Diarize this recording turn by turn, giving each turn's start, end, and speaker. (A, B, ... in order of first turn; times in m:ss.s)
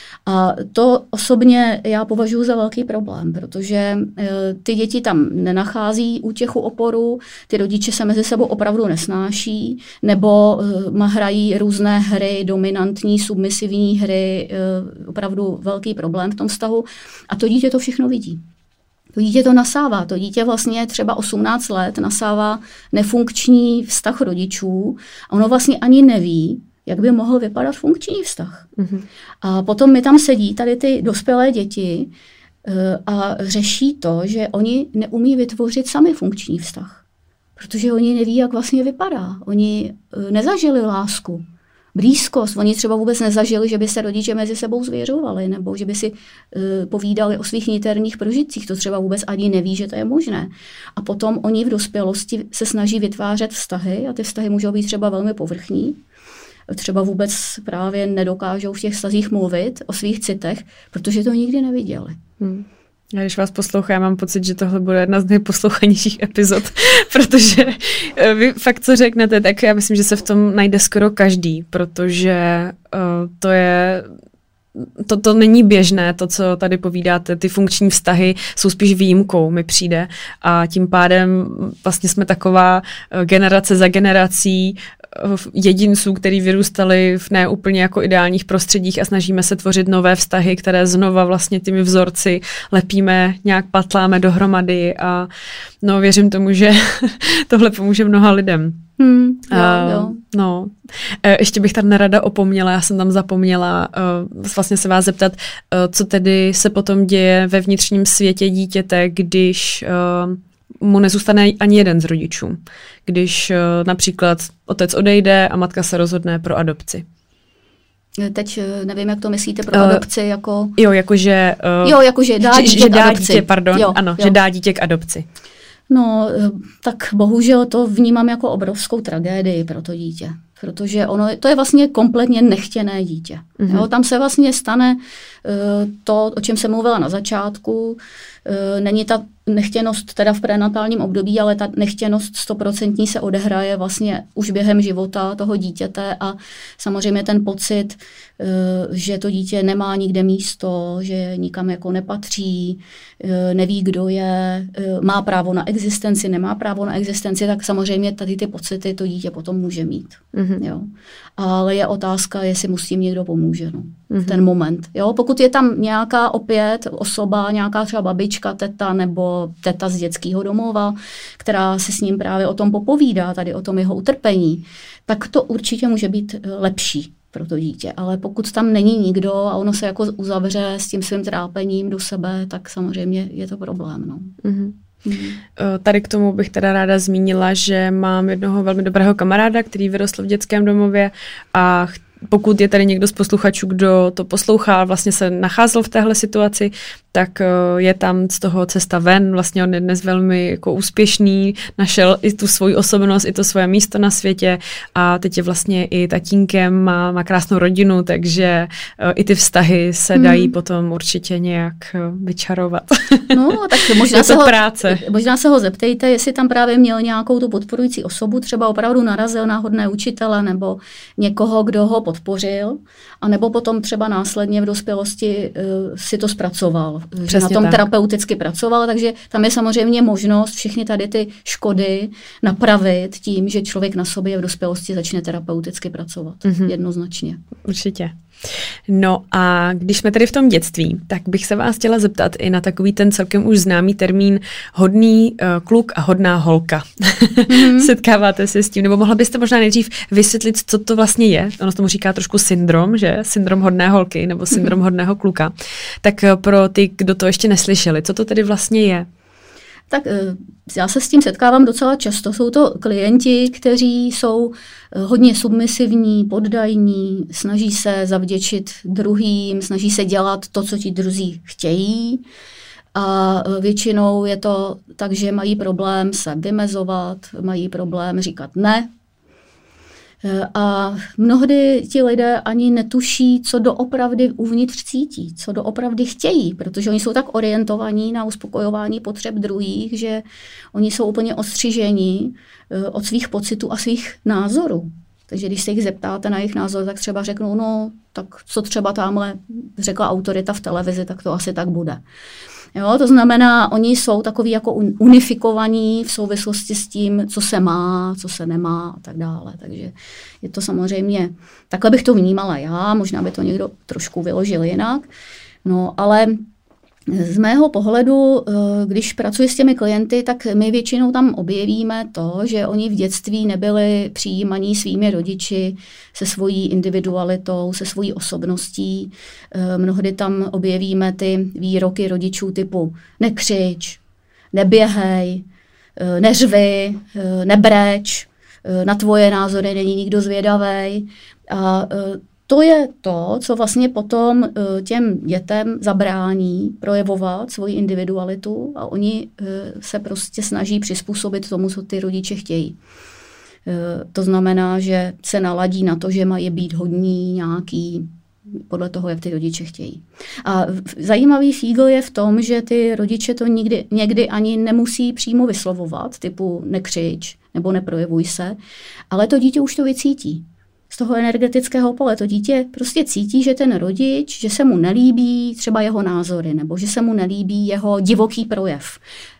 0:00.2-0:18.4 A
0:19.2-0:28.7 A
0:28.8-0:29.0 B
0:29.4-0:32.1 A
0:32.6-0:37.0 A
0:37.6-0:41.4 A
0:41.9-0:56.0 A
0:56.7-1:02.2 A
1:02.4-1:14.1 B
1:14.8-1:35.3 B
1:35.8-1:38.8 B
1:39.0-1:40.2 A
1:39.5-1:57.0 B
1:58.2-2:00.7 A
1:59.7-2:00.0 B
2:00.8-2:05.2 B
2:01.8-2:04.4 A
2:05.9-3:04.3 A
2:13.6-2:13.9 B
2:40.3-2:40.6 B
2:44.1-2:44.4 B
3:04.4-3:04.8 B
3:05.0-3:05.4 A
3:05.6-3:33.4 B
3:30.1-3:30.5 A
3:33.3-3:57.4 A
3:34.0-3:35.0 B
3:47.3-3:47.8 B
3:56.4-3:56.7 B
3:57.6-4:19.1 B
4:07.5-4:07.9 A
4:19.9-4:32.2 A
4:32.9-4:38.9 A
4:40.2-5:02.0 A
5:02.7-5:15.1 A
5:15.6-5:16.4 A
5:17.1-5:34.0 A
5:34.5-5:35.4 A
5:36.0-5:52.8 A
5:53.6-5:58.1 A
5:58.7-6:08.6 A
6:09.1-6:19.0 A